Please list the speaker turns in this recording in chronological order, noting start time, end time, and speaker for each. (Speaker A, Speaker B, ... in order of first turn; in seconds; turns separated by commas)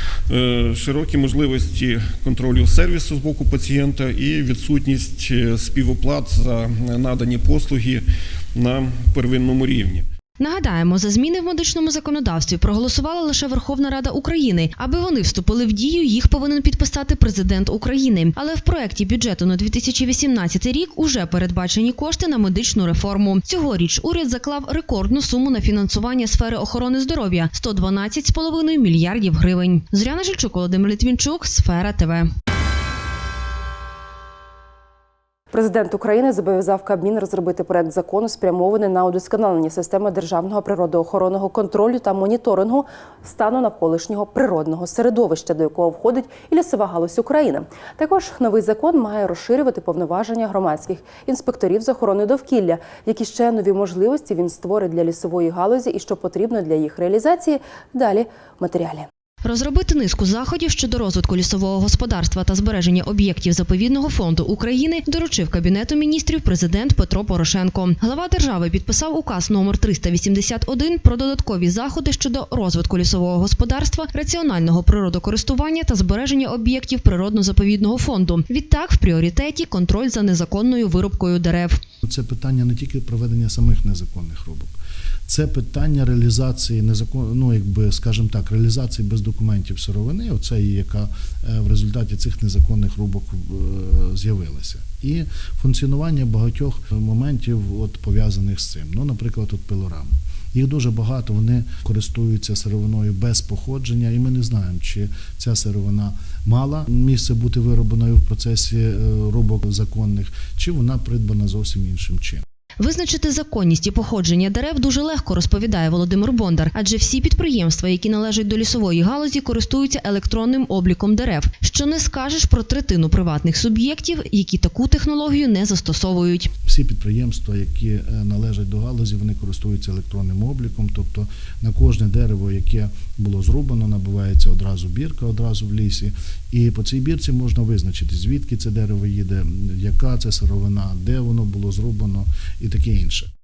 Speaker A: 0.3-8.0, Speaker A: 8.6-10.1, Speaker B: 10.4-32.3, Speaker C: 35.5-59.1, Speaker B: 59.4-81.8, Speaker D: 82.0-84.8, Speaker D: 85.3-112.4, Speaker B: 112.8-126.5, Speaker D: 126.7-143.3